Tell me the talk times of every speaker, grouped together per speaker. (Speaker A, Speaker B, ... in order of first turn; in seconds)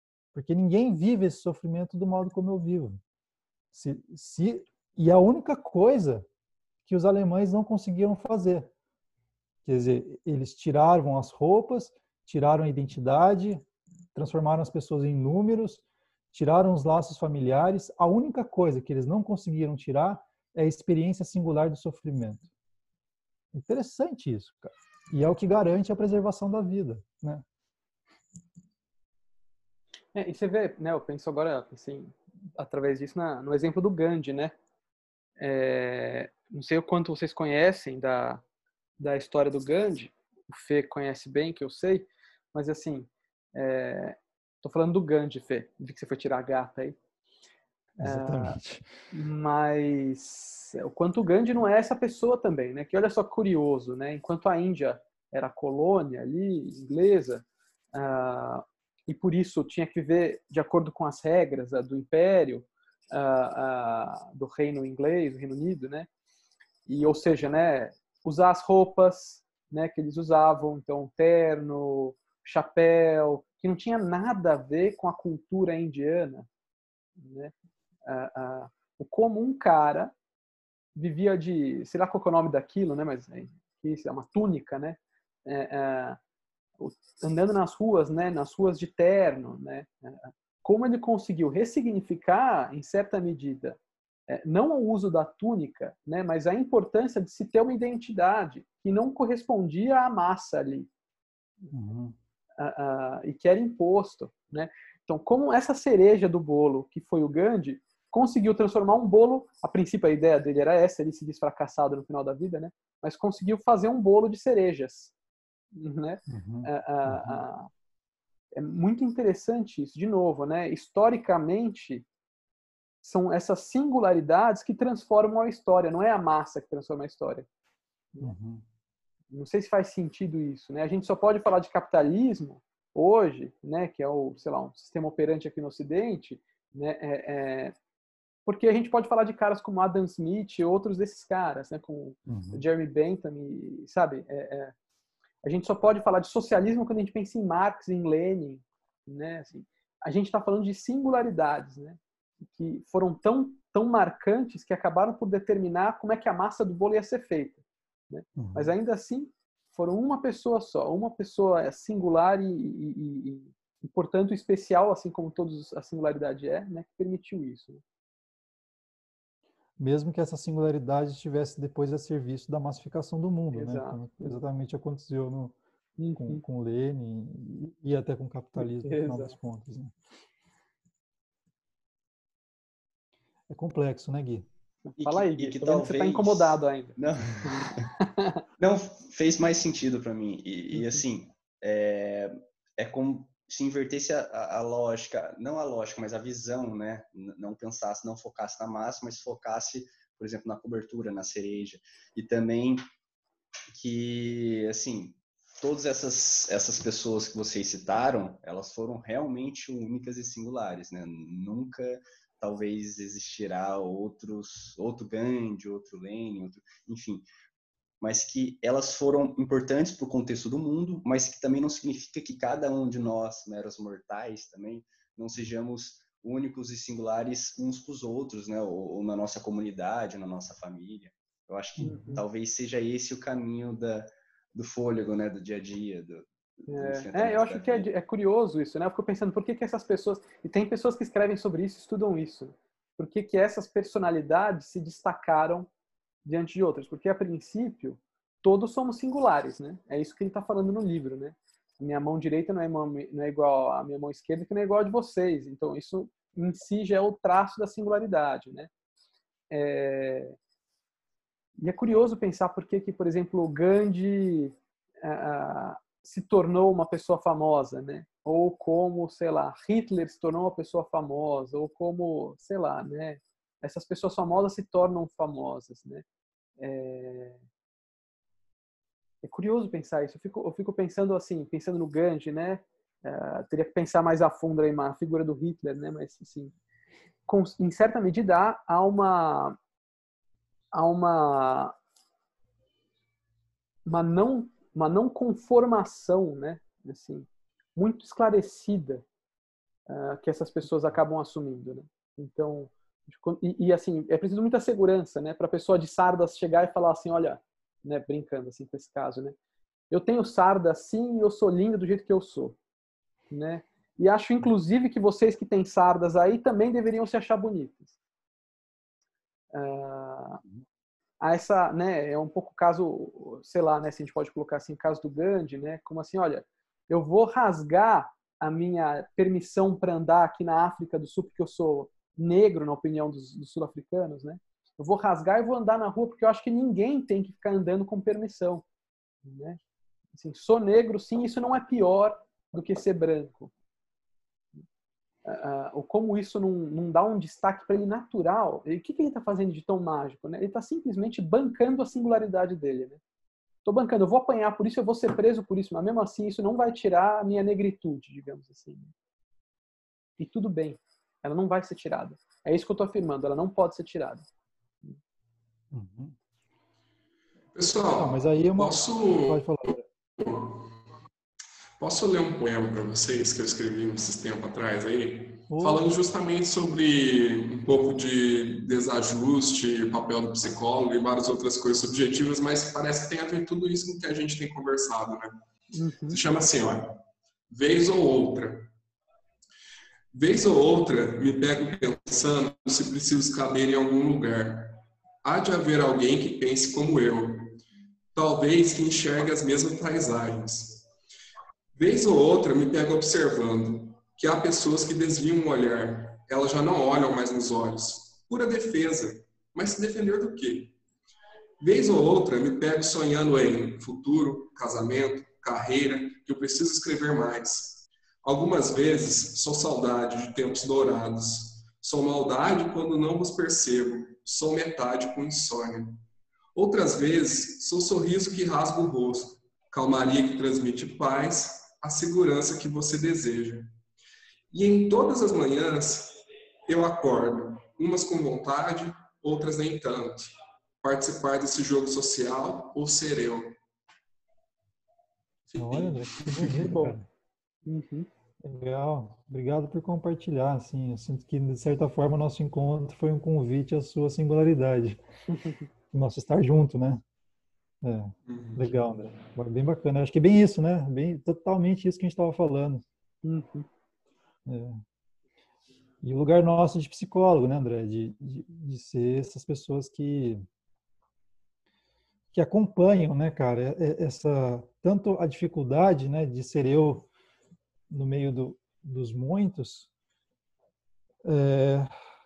Speaker A: 0.3-3.0, 3.7-6.3, 6.8-8.7, 9.6-22.5, 23.5-27.4, 48.0-48.9, 101.7-102.2, 116.3-117.4, 128.2-128.7, 142.3-142.6, 158.4-158.7, 169.8-175.6, 176.2-180.0, 183.5-184.5, 231.8-232.1, 365.7-366.2, 367.9-369.9, 375.5-375.9, 445.6-447.1, 448.4-455.0, 455.9-457.0, 457.8-462.8, 464.5-464.8, 466.0-470.4, 472.3-477.1, 477.9-479.9, 481.2-481.9
Speaker B: 30.1-34.5, 35.4-38.4, 39.0-47.0, 48.0-48.6, 49.1-66.1, 66.9-76.5, 77.2-77.5, 78.1-80.1, 81.0-86.2, 86.8-100.9, 102.6-115.1, 115.8-117.7, 118.5-122.1, 123.0-127.5, 129.3-137.8, 138.5-144.7, 145.4-167.8, 173.5-174.4, 176.0-176.4, 178.6-179.4, 184.8-188.4, 231.8-232.2, 236.7-245.7, 246.2-258.7, 259.5-260.4, 261.6-276.1, 276.6-277.4, 279.2-286.6, 287.3-289.6, 290.7-291.8, 293.9-299.1, 299.9-309.4, 309.9-312.6, 313.3-317.9, 319.5-320.4, 321.2-338.7, 339.2-339.6, 340.1-343.5, 345.2-353.0, 353.6-358.9, 360.2-364.3, 385.7-386.2, 446.6-446.9, 447.7-448.1, 463.2-463.7
Speaker C: 185.0-187.9, 188.6-202.8, 203.7-217.2, 218.0-237.9
Speaker D: 367.6-369.5, 370.2-370.7, 371.8-385.4, 386.1-387.0, 387.5-388.7, 390.1-397.6, 398.1-400.9, 401.8-410.8, 411.6-426.0, 426.6-433.7, 434.5-443.6, 445.5-446.8, 458.3-458.7